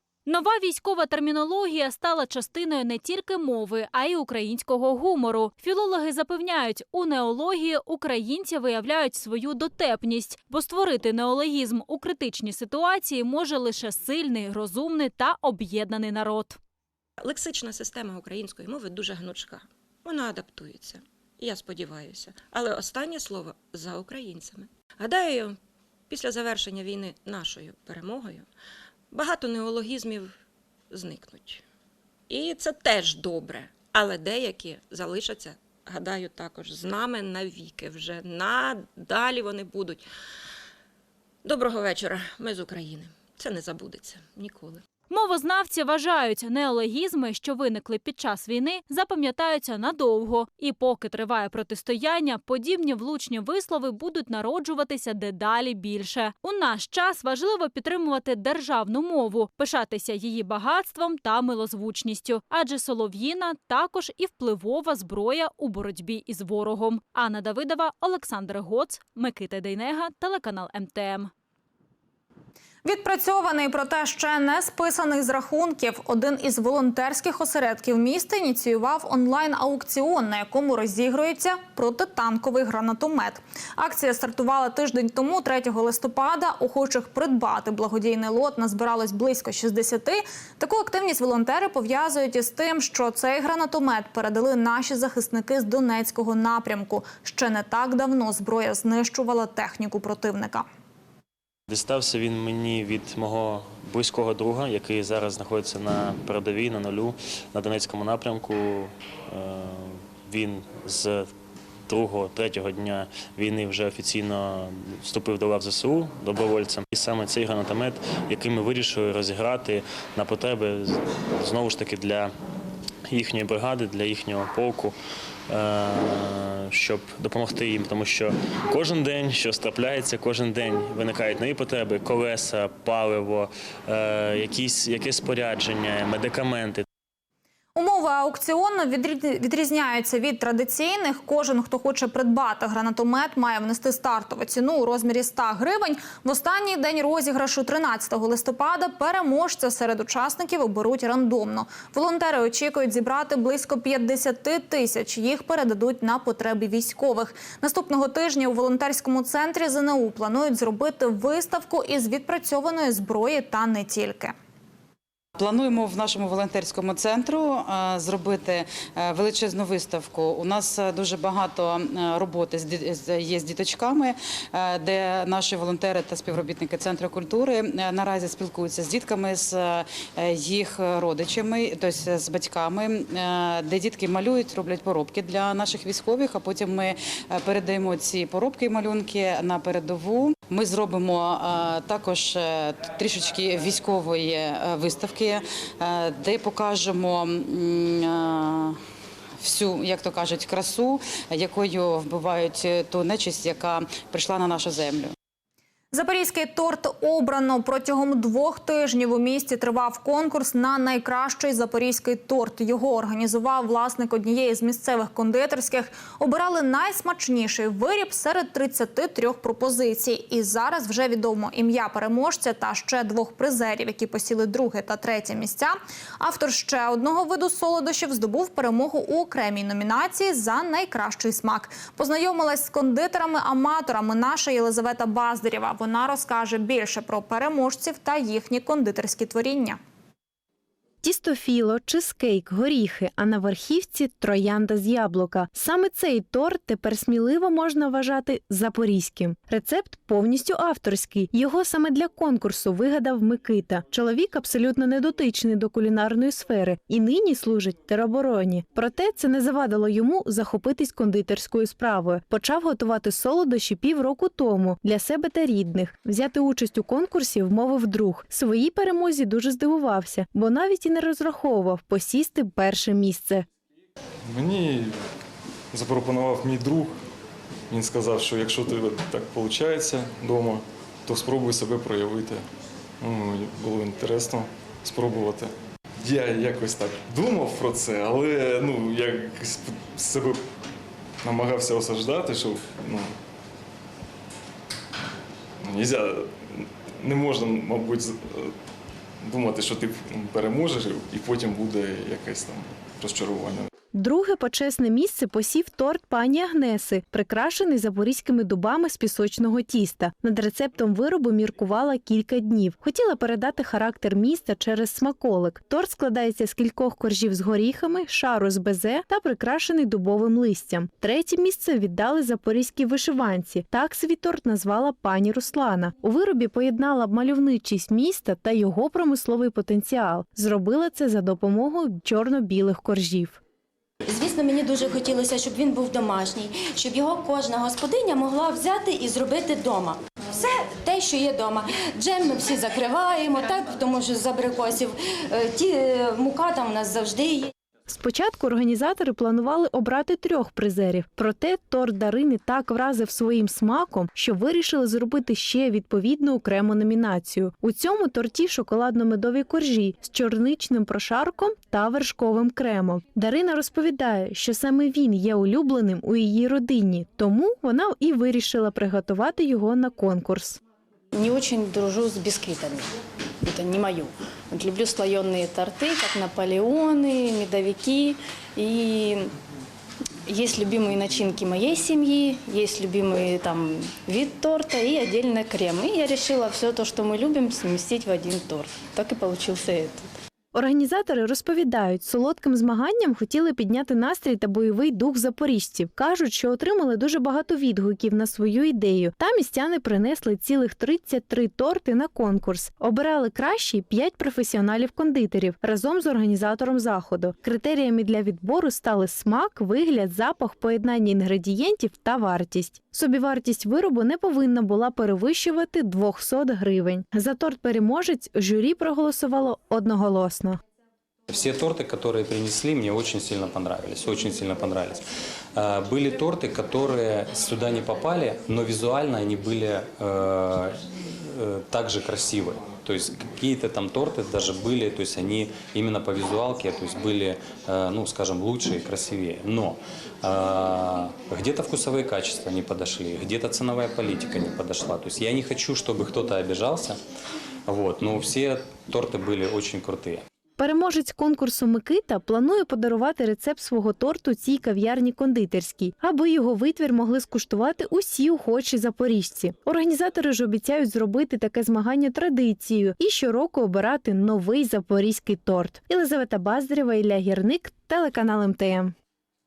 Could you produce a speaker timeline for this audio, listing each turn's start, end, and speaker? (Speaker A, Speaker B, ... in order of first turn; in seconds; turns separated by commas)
Speaker A: 0.2-16.6, Speaker B: 17.2-25.6, Speaker B: 26.1-28.5, Speaker B: 29.1-30.3, Speaker B: 30.9-31.6, Speaker B: 32.3-40.0, Speaker B: 41.4-44.8, Speaker A: 45.1-71.3, Speaker C: 72.8-100.7, Speaker D: 101.7-111.3, Speaker D: 111.9-122.3, Speaker D: 123.0-125.0, Speaker D: 125.5-136.8, Speaker C: 137.8-164.3, Speaker E: 165.3-198.8, Speaker E: 199.4-205.1, Speaker C: 205.9-239.8, Speaker F: 241.0-273.4, Speaker G: 274.3-275.0, Speaker G: 275.7-277.0, Speaker G: 277.7-282.4, Speaker G: 283.0-290.4, Speaker G: 291.2-293.1, Speaker G: 295.6-298.6, Speaker G: 299.2-303.7, Speaker F: 303.9-333.4, Speaker H: 334.1-347.5, Speaker F: 347.9-370.6, Speaker I: 371.1-372.9, Speaker I: 373.4-379.3, Speaker I: 380.3-390.1, Speaker F: 390.5-420.6, Speaker J: 421.3-425.0, Speaker J: 425.5-447.0, Speaker J: 447.6-450.2, Speaker F: 450.6-468.9